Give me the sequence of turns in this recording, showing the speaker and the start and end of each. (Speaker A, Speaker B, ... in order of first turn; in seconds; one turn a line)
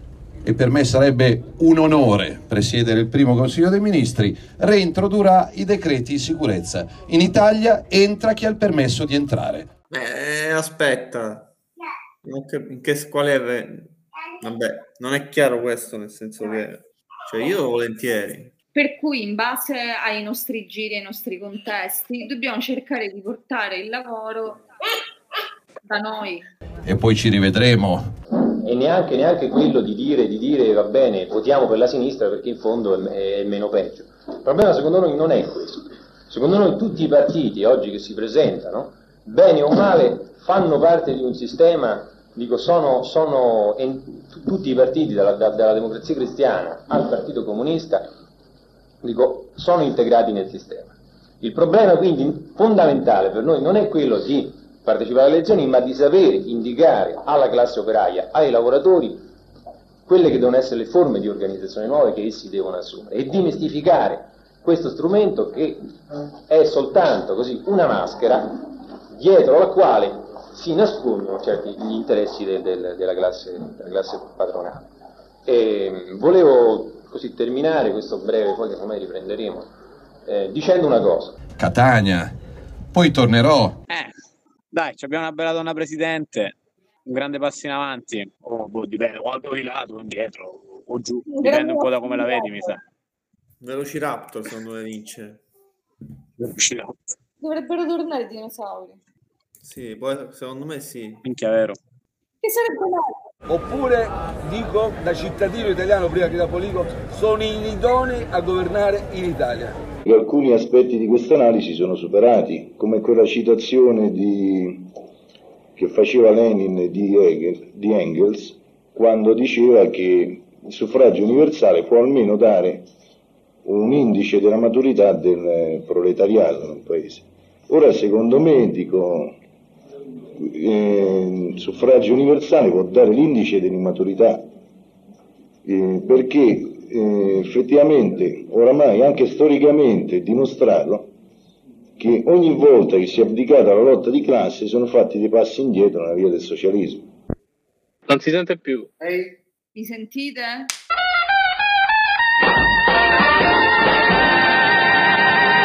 Speaker A: 0.5-9.7
Speaker B: 9.9-11.5
Speaker B: 12.2-18.5
Speaker C: 18.7-24.6
Speaker C: 25.8-26.5
Speaker A: 26.9-28.0
Speaker D: 28.6-48.1
Speaker D: 49.0-59.2
Speaker D: 60.1-65.8
Speaker D: 66.5-74.9
Speaker D: 75.5-79.7
Speaker D: 80.3-81.4
Speaker A: 81.6-82.3
Speaker A: 82.9-83.8
Speaker E: 84.7-86.5
Speaker E: 87.1-92.7
Speaker C: 91.3-92.8
Speaker B: 93.6-95.4
Speaker E: 96.5-96.9
Speaker C: 97.4-99.0
Speaker B: 99.7-101.3
Speaker E: 101.3-101.8
Speaker C: 102.4-103.2
Speaker F: 103.5-109.8
Speaker G: 110.0-114.9
Speaker G: 115.8-122.9
Speaker G: 123.7-129.3
Speaker G: 130.4-134.5
Speaker G: 135.7-141.1
Speaker G: 142.0-147.1
Speaker E: 148.1-148.9
Speaker C: 149.7-150.7